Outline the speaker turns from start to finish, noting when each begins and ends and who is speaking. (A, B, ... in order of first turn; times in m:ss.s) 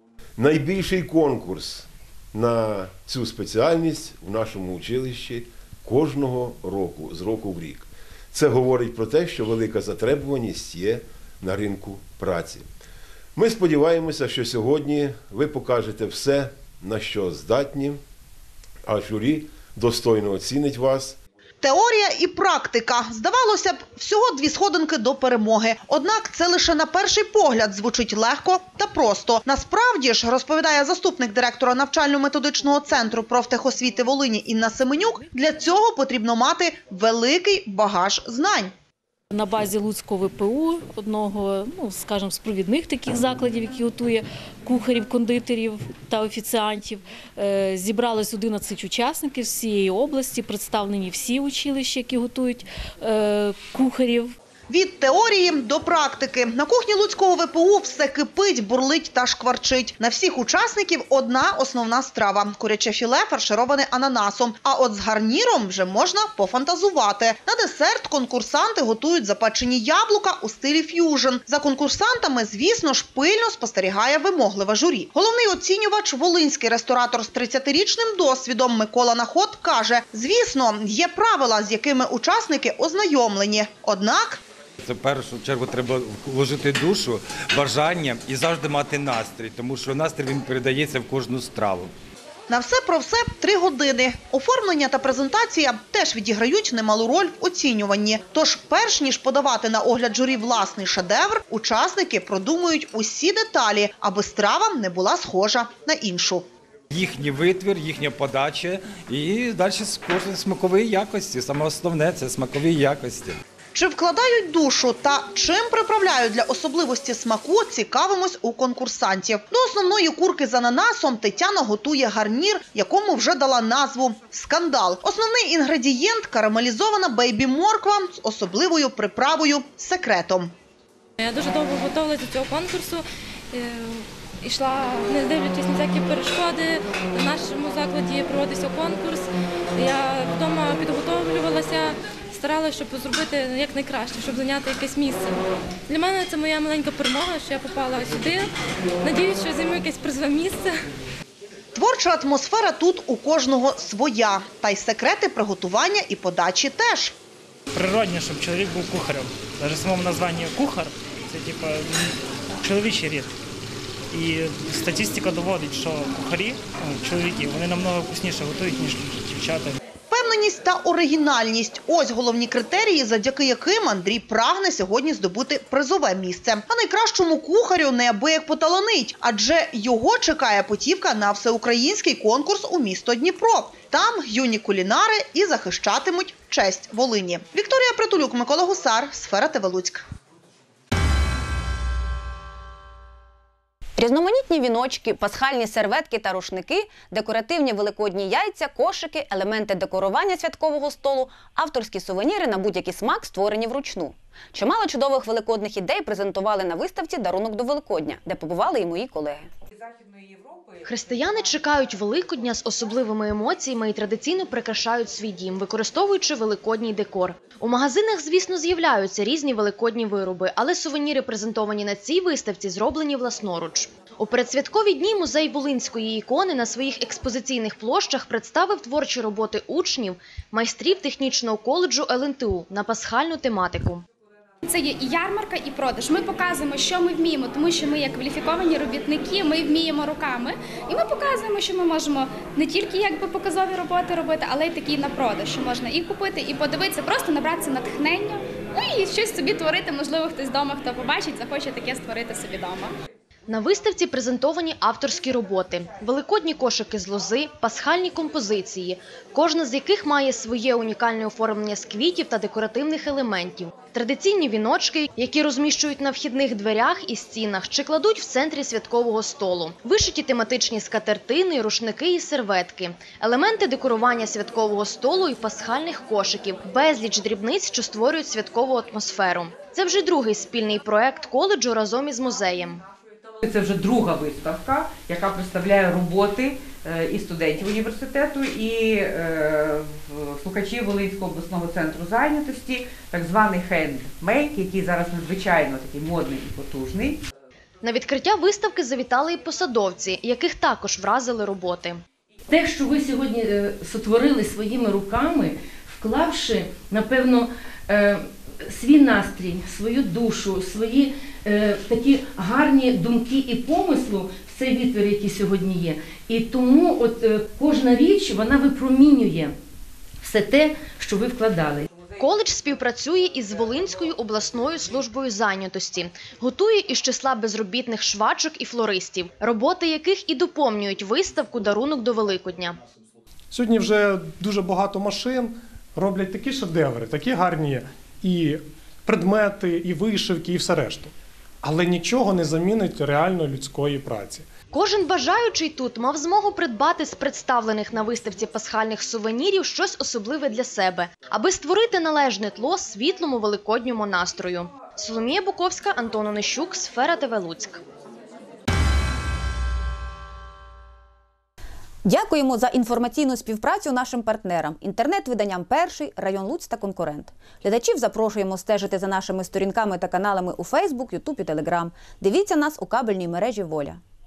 0:00.4-0:12.6 A
0:13.4-0:18.0 A
0:18.9-0:21.1 A
0:21.6-0:38.7 B
0:39.3-0:54.3 C
0:54.7-1:24.4 B
1:24.8-1:31.9 D
1:32.5-1:46.5 B
1:46.9-1:53.4 D
1:53.7-2:10.5 B
2:11.2-2:28.5 E
2:29.0-2:30.7 E
2:31.7-2:37.1 B
2:37.7-2:41.9 F
2:42.6-2:43.3 F
2:44.1-2:49.8 F
2:50.1-3:10.0 B
3:14.0-3:29.5 G
3:30.8-3:54.0 H
3:54.6-4:12.9 I
4:13.5-4:42.8 H
4:43.4-4:57.2 J
4:57.8-5:02.0 H
5:02.5-5:19.5 K
5:20.2-5:21.9 K
5:22.2-5:32.8 H
5:33.5-5:44.4 L
5:44.7-5:57.8 H
6:02.0-6:14.0 G